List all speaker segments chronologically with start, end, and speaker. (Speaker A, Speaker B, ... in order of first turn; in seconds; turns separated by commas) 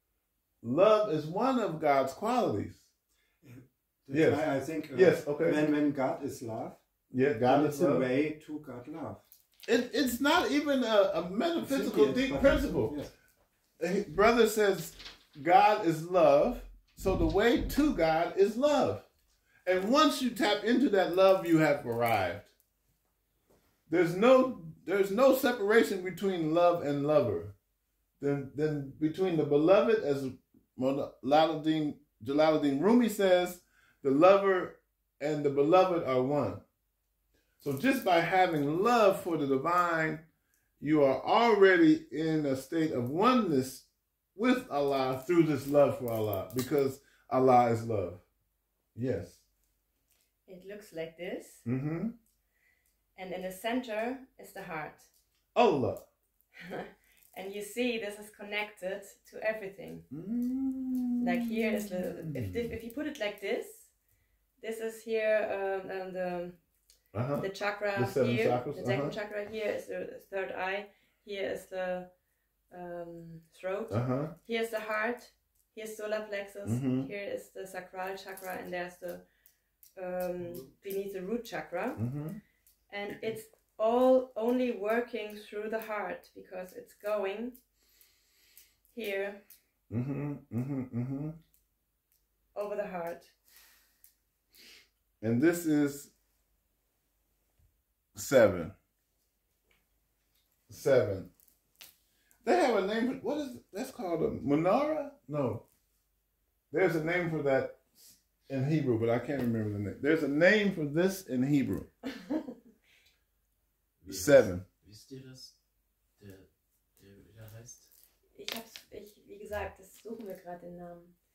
Speaker A: 0.6-2.8, Speaker B: 3.4-6.8, Speaker A: 4.1-5.7, Speaker A: 7.1-8.1, Speaker B: 7.5-9.2, Speaker A: 9.7-12.9, Speaker B: 11.7-13.1, Speaker A: 13.8-19.1, Speaker A: 19.7-22.5, Speaker A: 23.9-27.5, Speaker A: 28.2-36.6, Speaker A: 37.6-40.2, Speaker A: 40.8-48.2, Speaker A: 49.0-49.4, Speaker C: 50.5-51.6, Speaker A: 51.6-52.1, Speaker C: 53.2-55.1, Speaker A: 55.5-56.0, Speaker C: 56.6-60.1, Speaker A: 60.1-62.7, Speaker C: 61.2-63.9, Speaker C: 64.6-66.6, Speaker A: 67.1-69.2, Speaker C: 67.4-72.1, Speaker C: 72.7-79.2, Speaker A: 73.9-74.3, Speaker A: 76.7-77.1, Speaker C: 80.0-82.0, Speaker A: 82.0-82.4, Speaker C: 82.9-87.5, Speaker C: 88.9-89.4, Speaker A: 89.9-91.4, Speaker C: 92.5-93.3, Speaker A: 95.2-96.1, Speaker A: 98.2-98.7, Speaker A: 100.7-101.3, Speaker A: 102.4-105.6, Speaker A: 106.7-111.9, Speaker D: 114.0-115.5, Speaker A: 114.1-114.7, Speaker D: 116.2-117.9, Speaker C: 118.3-121.1